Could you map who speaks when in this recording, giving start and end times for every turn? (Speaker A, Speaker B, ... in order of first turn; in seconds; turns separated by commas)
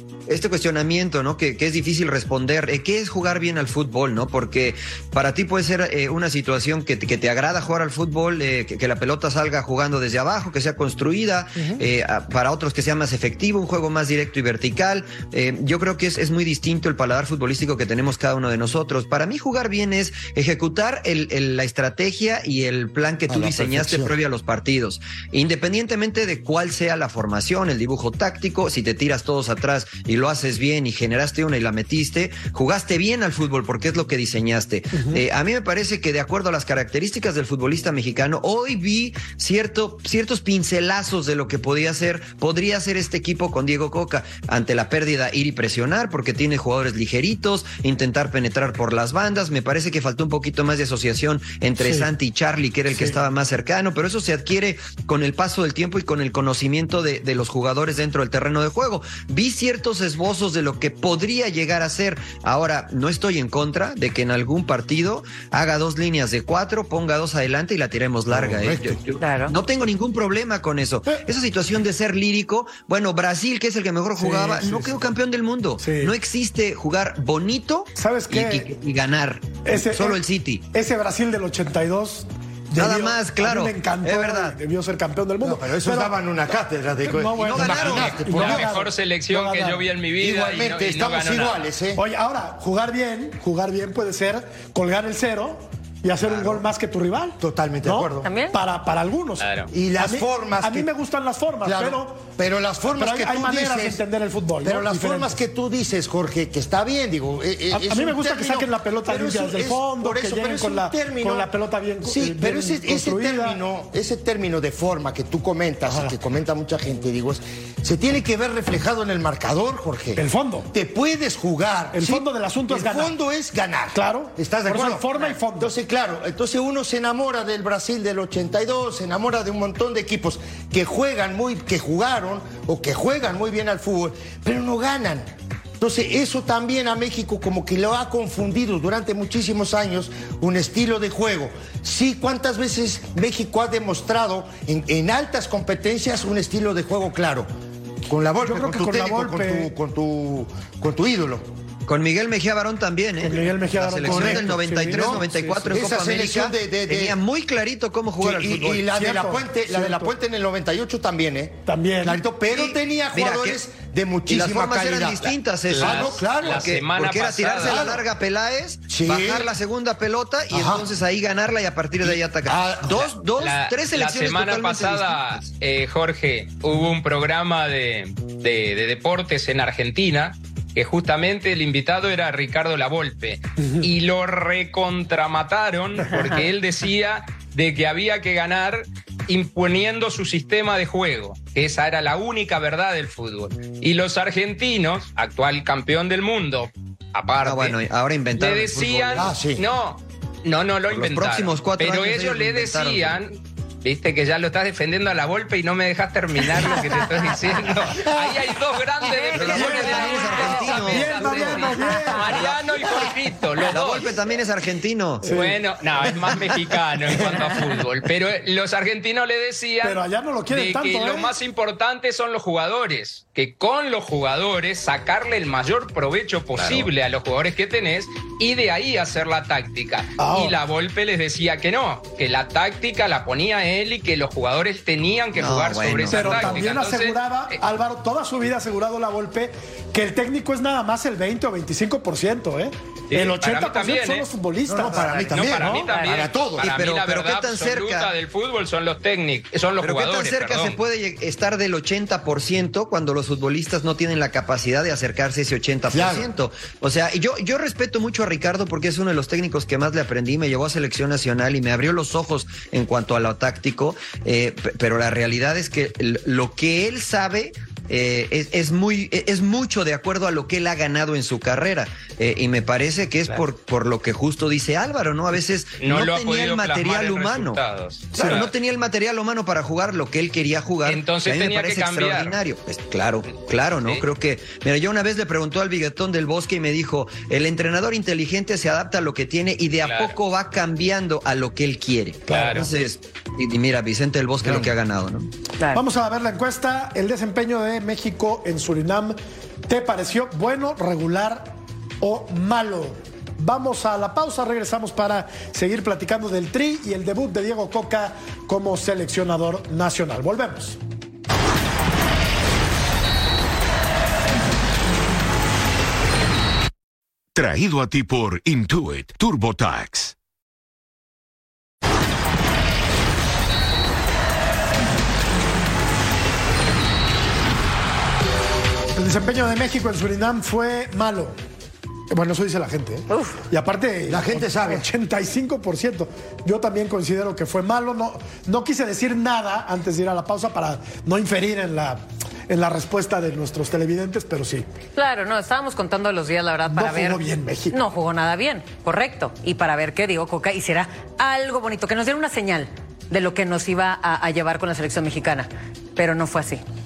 Speaker A: 0.3-80.6, Speaker B: 23.3-24.1, Speaker C: 34.9-35.2, Speaker C: 51.8-52.1, Speaker C: 52.9-53.2, Speaker B: 68.3-69.2, Speaker D: 69.2-69.5, Speaker C: 74.2-74.9, Speaker C: 75.8-76.1, Speaker C: 78.0-78.7, Speaker C: 79.6-80.2, Speaker C: 80.7-86.2, Speaker A: 82.8-84.5, Speaker B: 85.4-88.7, Speaker C: 87.0-89.8, Speaker A: 87.4-88.6, Speaker E: 88.2-91.6, Speaker B: 90.2-92.0, Speaker C: 92.0-102.2, Speaker B: 96.3-96.6, Speaker B: 97.4-98.3, Speaker D: 98.2-98.6, Speaker E: 99.4-99.7, Speaker B: 99.7-100.9, Speaker B: 101.6-104.0, Speaker C: 103.0-105.3, Speaker B: 104.6-111.5, Speaker C: 107.7-113.6, Speaker B: 112.0-135.3, Speaker C: 115.9-116.1, Speaker C: 120.2-120.7, Speaker C: 121.9-123.1, Speaker C: 123.9-125.7, Speaker B: 135.8-147.5, Speaker B: 148.1-151.5, Speaker C: 148.4-149.7, Speaker A: 151.9-158.8, Speaker C: 153.2-155.7, Speaker B: 154.0-157.2, Speaker B: 158.2-166.8, Speaker C: 158.9-160.1, Speaker C: 161.7-162.2, Speaker A: 162.5-163.6, Speaker A: 164.3-175.4, Speaker E: 165.7-167.8, Speaker B: 167.6-168.0, Speaker B: 168.9-169.5, Speaker B: 170.5-170.9, Speaker B: 172.0-173.1, Speaker E: 173.4-197.8, Speaker C: 183.6-183.9, Speaker A: 197.4-199.3, Speaker E: 198.4-214.1, Speaker B: 199.1-199.6, Speaker A: 200.9-203.2, Speaker D: 209.0-210.8, Speaker A: 209.3-212.5, Speaker B: 209.5-209.8, Speaker C: 209.5-212.5, Speaker A: 213.6-215.3, Speaker C: 215.2-216.6, Speaker E: 215.2-237.6, Speaker C: 217.2-217.5, Speaker C: 219.8-221.3, Speaker A: 226.6-226.9, Speaker C: 230.2-230.6, Speaker A: 235.3-236.6, Speaker C: 236.1-245.9, Speaker E: 243.1-244.3, Speaker B: 244.7-246.8, Speaker E: 245.3-250.8, Speaker D: 245.9-246.2, Speaker A: 246.6-248.1, Speaker A: 249.8-277.6, Speaker B: 255.9-256.3, Speaker E: 275.8-278.5, Speaker A: 278.1-295.3, Speaker C: 278.2-278.4, Speaker E: 280.8-282.4, Speaker E: 289.8-290.1, Speaker E: 292.3-292.7, Speaker C: 292.3-292.7, Speaker B: 294.4-294.7, Speaker C: 295.7-299.1, Speaker C: 299.7-310.8, Speaker F: 317.3-320.1, Speaker C: 328.9-331.4, Speaker C: 332.1-344.7, Speaker D: 333.1-333.4, Speaker B: 334.1-334.9, Speaker D: 344.9-347.2, Speaker C: 346.7-347.8, Speaker D: 347.7-356.6